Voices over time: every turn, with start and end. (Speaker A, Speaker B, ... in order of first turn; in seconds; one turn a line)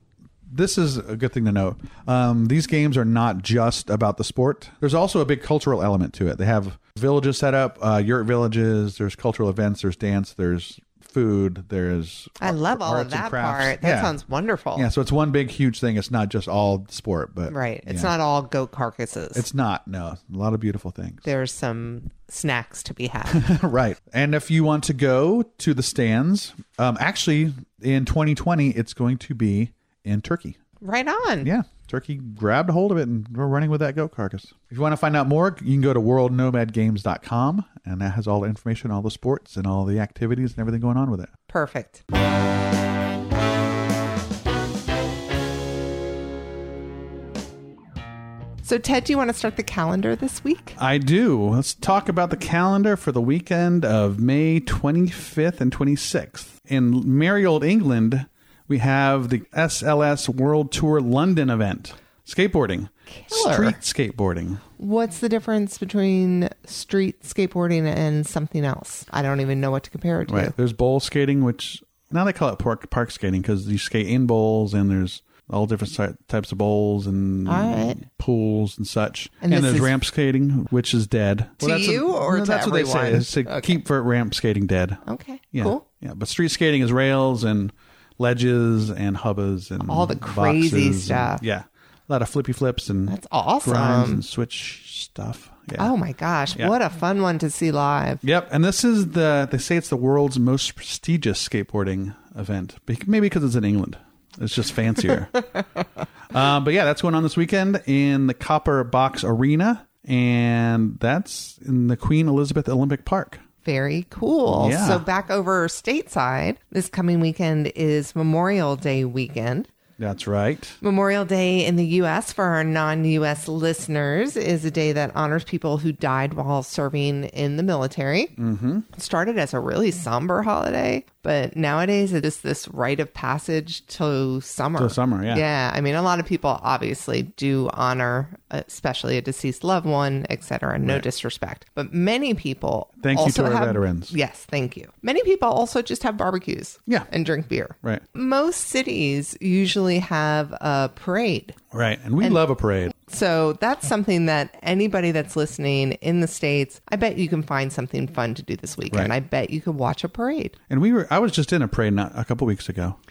Speaker A: 0.5-14.1
Speaker B: 12.4-14.9
Speaker A: 14.8-18.1
Speaker B: 17.5-19.4
Speaker A: 19.3-21.2
Speaker B: 21.2-23.4
Speaker A: 23.3-30.6
Speaker B: 30.8-31.5
Speaker A: 31.4-41.3
Speaker B: 41.5-42.0
Speaker B: 48.6-50.8
Speaker A: 50.8-64.6
Speaker B: 63.1-63.8
Speaker B: 64.8-70.5
Speaker A: 70.3-85.0
Speaker B: 77.5-78.0
Speaker B: 79.4-79.9
Speaker B: 81.6-83.8
Speaker B: 85.0-85.8
Speaker A: 85.5-95.9
Speaker B: 89.8-91.4
Speaker B: 93.1-94.2
Speaker B: 95.8-98.2
Speaker A: 98.2-105.4
Speaker A: 106.3-113.4
Speaker B: 113.6-119.7
Speaker A: 114.5-115.0
Speaker A: 120.0-120.8
Speaker B: 120.8-128.3
Speaker A: 128.4-128.8
Speaker B: 128.9-151.6
Speaker A: 134.8-135.4
Speaker A: 143.0-144.1
Speaker A: 151.7-152.9
Speaker B: 153.0-160.5
Speaker A: 160.7-163.0